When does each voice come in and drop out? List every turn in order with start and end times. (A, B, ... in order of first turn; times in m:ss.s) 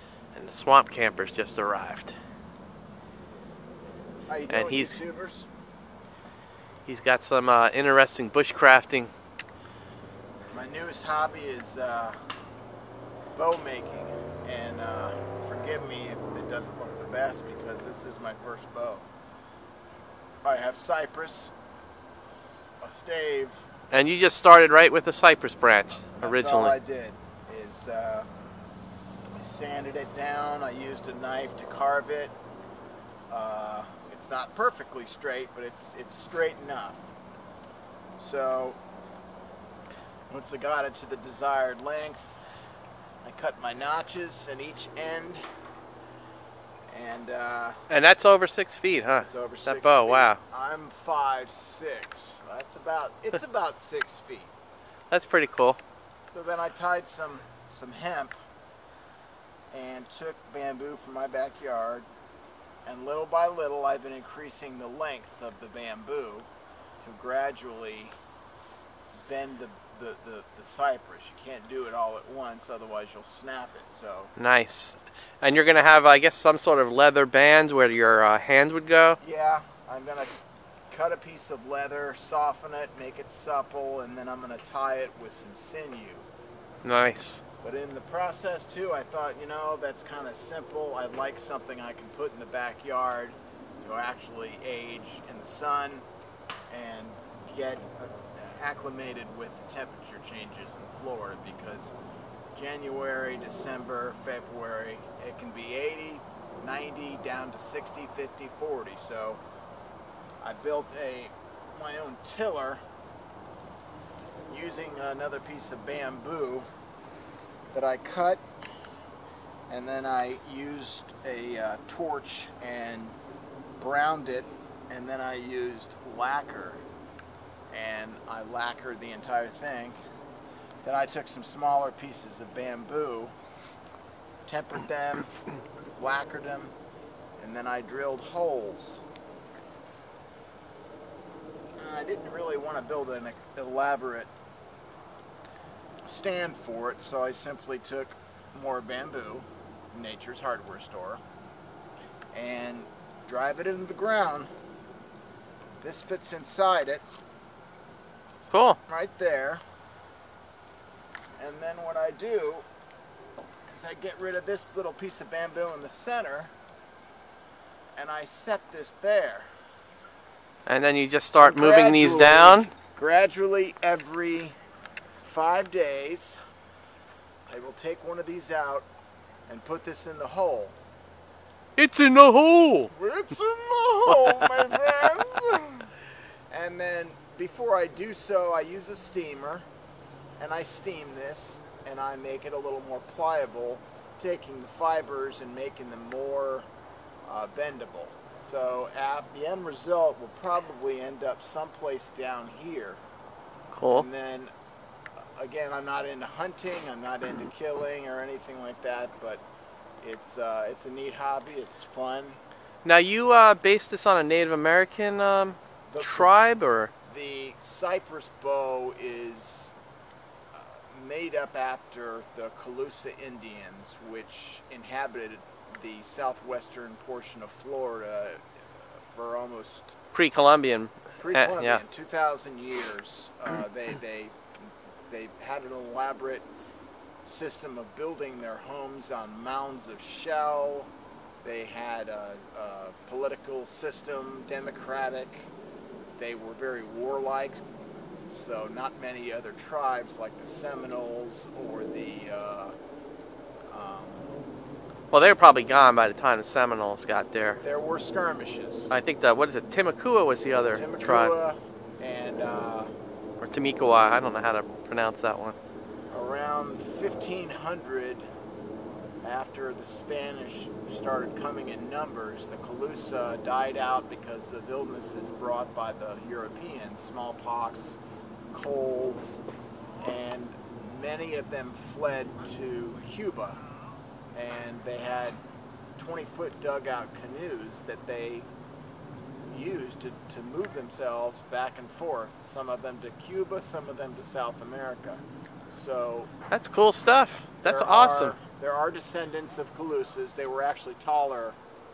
0:00.3-0:02.1 A
0:04.3-0:05.4 B
0:04.5-0:05.0 A
0:06.8-0:09.1 A
0:10.5-0:12.2 B
0:13.3-0:19.1 B
0:20.4-0:21.5 B
0:22.8-0:23.6 B
0:23.9-0:26.8 A
0:26.2-0:28.3 B
0:29.4-0:32.3 B
0:33.3-0:37.1 B
0:38.2-0:38.8 B
0:40.3-0:42.4 B
0:43.2-0:45.4 B
0:46.9-0:47.8 B
0:47.9-0:50.4 A
0:49.2-0:54.5 B
0:55.1-0:55.8 A
0:56.3-0:58.3 B
0:59.7-1:02.0 B
1:02.8-1:06.5 B
1:07.0-1:08.1 B
1:09.2-1:14.3 B
1:14.4-1:19.2 A
1:19.2-1:20.3 B
1:20.9-1:26.2 B
1:26.8-1:27.4 A
1:27.6-1:36.0 B
1:36.7-1:41.9 B
1:42.5-1:49.4 B
1:50.4-1:52.8 B
1:54.5-1:56.6 B
1:57.7-1:58.4 B
1:59.7-2:03.1 B
2:03.8-2:06.8 B
2:07.7-2:10.0 B
2:10.8-2:13.3 B
2:14.4-2:15.3 B
2:16.0-2:16.7 B
2:17.4-2:19.0 B
2:21.8-2:24.3 B
2:26.0-2:31.2 B
2:32.3-2:34.5 B
2:35.8-2:37.0 B
2:38.5-2:38.8 A
2:38.9-2:39.6 B
2:41.4-2:42.6 B
2:43.7-2:46.5 B
2:48.0-2:49.5 B
2:50.6-2:52.7 A
2:51.4-2:54.6 B
2:55.2-2:56.4 B
2:57.5-2:58.8 B
2:59.5-3:00.7 B
3:01.8-3:02.9 A
3:02.9-3:05.9 B
3:06.5-3:09.6 B
3:10.4-3:16.7 B
3:17.3-3:23.0 B
3:23.7-3:24.0 A
3:23.9-3:24.5 B
3:25.4-3:29.4 B
3:30.0-3:32.4 B
3:32.8-3:36.9 A
3:35.9-3:36.3 B
3:37.1-3:39.7 B
3:40.5-3:49.9 B
3:50.1-3:51.8 A
3:51.2-3:54.4 B
3:55.1-3:56.4 B
3:57.2-4:00.9 B
4:01.4-4:05.5 B
4:06.2-4:07.6 B
4:08.3-4:12.7 B
4:13.7-4:14.3 B
4:15.1-4:17.6 A
4:17.6-4:18.9 B
4:18.9-4:21.3 A
4:20.7-4:22.9 B
4:23.4-4:25.5 A
4:26.1-4:28.2 B
4:29.2-4:38.0 B
4:38.5-4:39.4 B
4:40.0-4:43.6 B
4:44.3-4:45.4 B
4:46.0-4:48.4 B
4:49.5-4:56.3 B
4:56.5-4:58.3 A
4:57.6-5:01.6 B